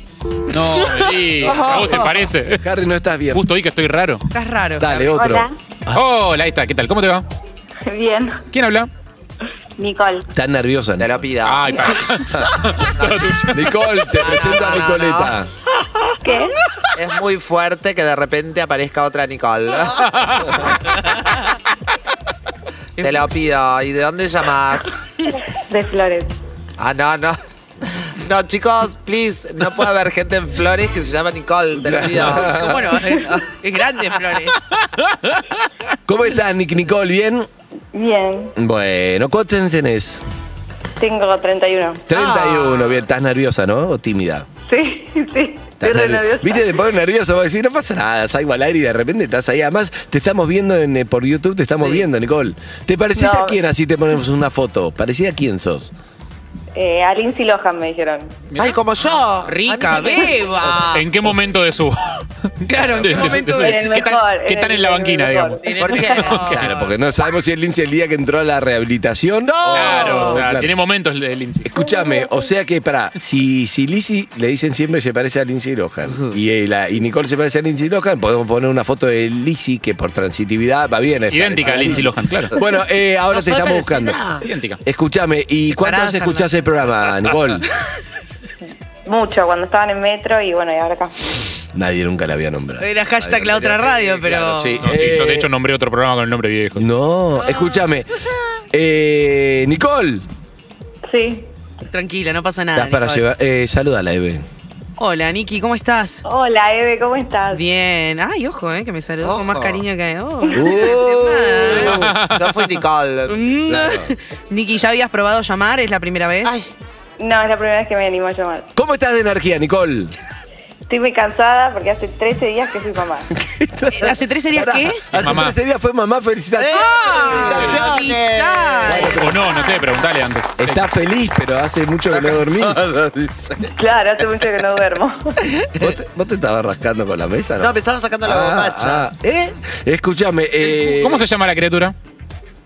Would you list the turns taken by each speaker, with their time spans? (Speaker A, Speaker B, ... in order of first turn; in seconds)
Speaker A: 0.5-2.6, 3.3-4.2, 5.9-7.3, 8.5-8.9, 11.4-13.8, 20.1-20.5, 58.5-58.8, 60.9-66.8, 69.7-71.7, 81.3-82.6, 84.4-84.8, 94.8-96.9, 111.8-112.8, 125.1-125.6, 127.5-127.8, 129.0-130.8, 140.6-141.9
Speaker B: 1.4-2.2, 11.0-11.9, 13.0-13.3, 14.2-15.3, 16.9-20.2, 23.0-25.0, 26.8-27.4, 28.0-33.5, 42.1-43.0, 51.8-52.1, 58.6-61.0, 65.8-66.7, 69.5-70.4, 81.7-82.0, 83.3-84.5, 109.2-109.8, 111.6-113.5, 116.4-116.7, 126.6-129.4, 132.1-133.7, 135.5-135.9, 137.6-139.1
Speaker C: 1.5-2.0, 2.6-3.5, 4.8-6.0, 10.3-11.3, 12.3-12.5, 13.4-15.5, 31.8-33.0, 36.1-37.5, 38.6-40.2, 42.1-44.5, 45.8-55.9, 63.1-63.4, 66.5-70.7, 71.6-84.2, 84.8-87.7, 91.8-95.5, 96.8-98.1, 98.7-100.3, 102.7-104.5, 110.5-112.1, 113.7-114.1, 118.8-120.1, 123.4-127.8, 128.9-129.3, 130.6-133.0, 135.8-141.3
Speaker D: 4.3-5.2, 23.0-23.3, 32.2-34.7, 59.5-61.1, 62.7-64.0, 65.6-66.1, 85.7-86.5, 92.8-94.9, 97.4-97.8, 101.9-103.3, 105.0-106.2, 107.5-112.0, 113.3-116.5, 123.9-125.1, 126.7-129.2
Speaker E: 5.1-5.5, 7.9-8.4, 9.8-10.2, 16.2-16.5, 25.7-26.3, 37.9-38.5, 41.0-42.1, 44.7-46.8, 53.2-53.6, 56.8-58.3, 63.5-66.3, 71.8-72.5, 89.1-91.1, 101.1-101.5, 106.3-107.6, 117.2-118.7, 120.9-123.3, 133.8-135.4